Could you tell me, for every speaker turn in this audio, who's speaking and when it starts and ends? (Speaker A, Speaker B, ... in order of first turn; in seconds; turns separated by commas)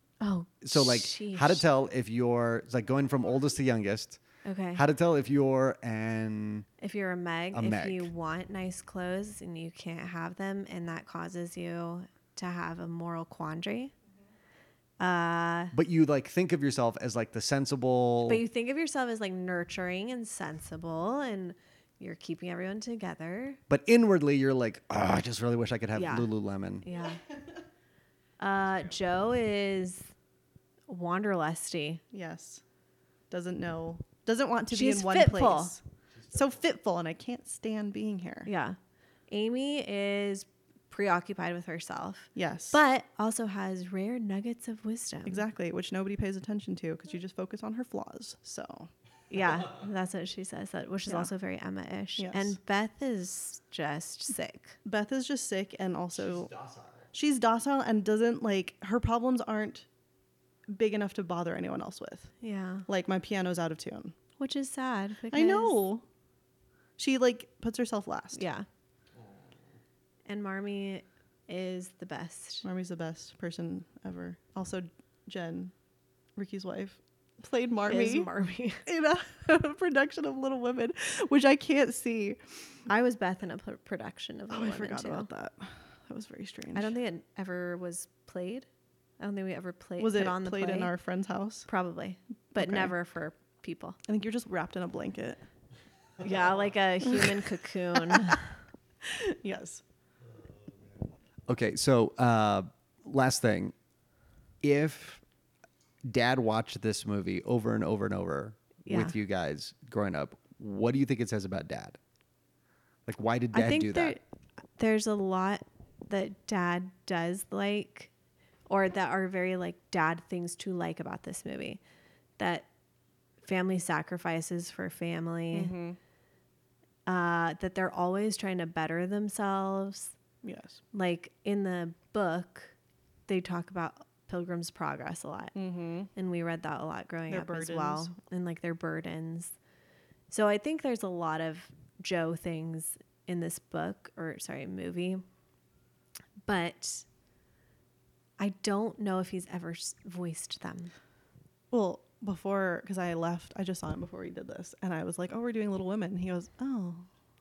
Speaker A: 0.2-1.6, Speaker B: 0.6-4.2, Speaker A: 4.4-4.8, Speaker B: 4.7-6.7, Speaker A: 6.8-13.9, Speaker B: 7.5-8.1, Speaker A: 15.0-15.7, Speaker B: 15.7-18.4, Speaker A: 18.2-23.6, Speaker B: 23.7-26.9, Speaker A: 25.9-26.3, Speaker A: 26.8-27.2, Speaker A: 28.4-30.1, Speaker A: 30.9-32.0, Speaker C: 32.1-32.6, Speaker C: 33.3-38.5, Speaker A: 34.7-35.7, Speaker A: 38.5-38.8, Speaker A: 39.3-45.4, Speaker C: 42.3-42.8, Speaker C: 45.2-48.9, Speaker A: 49.3-54.8, Speaker C: 52.2-52.5, Speaker C: 54.8-56.5, Speaker B: 56.4-57.1, Speaker C: 57.1-59.9, Speaker C: 60.7-62.3, Speaker A: 62.4-62.9, Speaker C: 62.9-64.1, Speaker A: 64.4-65.8, Speaker C: 65.3-66.0, Speaker C: 67.0-68.4, Speaker A: 68.3-68.7, Speaker A: 70.3-72.6, Speaker C: 72.6-75.7, Speaker C: 76.3-78.3, Speaker A: 77.8-78.8, Speaker C: 78.8-82.4, Speaker A: 82.9-85.3, Speaker C: 84.5-86.9, Speaker A: 86.7-88.7, Speaker A: 89.2-90.9, Speaker C: 90.0-91.7, Speaker A: 91.7-94.0, Speaker C: 92.5-92.9, Speaker C: 94.0-95.4, Speaker A: 96.2-98.5, Speaker C: 98.0-98.3, Speaker C: 99.0-99.8, Speaker B: 101.5-103.7, Speaker B: 104.6-105.2, Speaker B: 106.0-112.0, Speaker A: 108.9-109.1, Speaker B: 113.0-114.2, Speaker A: 113.5-114.2, Speaker A: 114.8-118.1, Speaker A: 118.7-121.8, Speaker A: 122.4-122.7, Speaker A: 123.4-125.7, Speaker C: 125.5-126.0, Speaker A: 127.0-130.1, Speaker C: 130.4-130.8, Speaker A: 130.9-132.7, Speaker A: 133.3-135.5, Speaker C: 135.5-136.1, Speaker A: 136.1-139.5, Speaker C: 137.3-138.1, Speaker A: 140.3-145.2, Speaker A: 146.5-147.0, Speaker A: 148.4-150.9, Speaker C: 151.7-157.1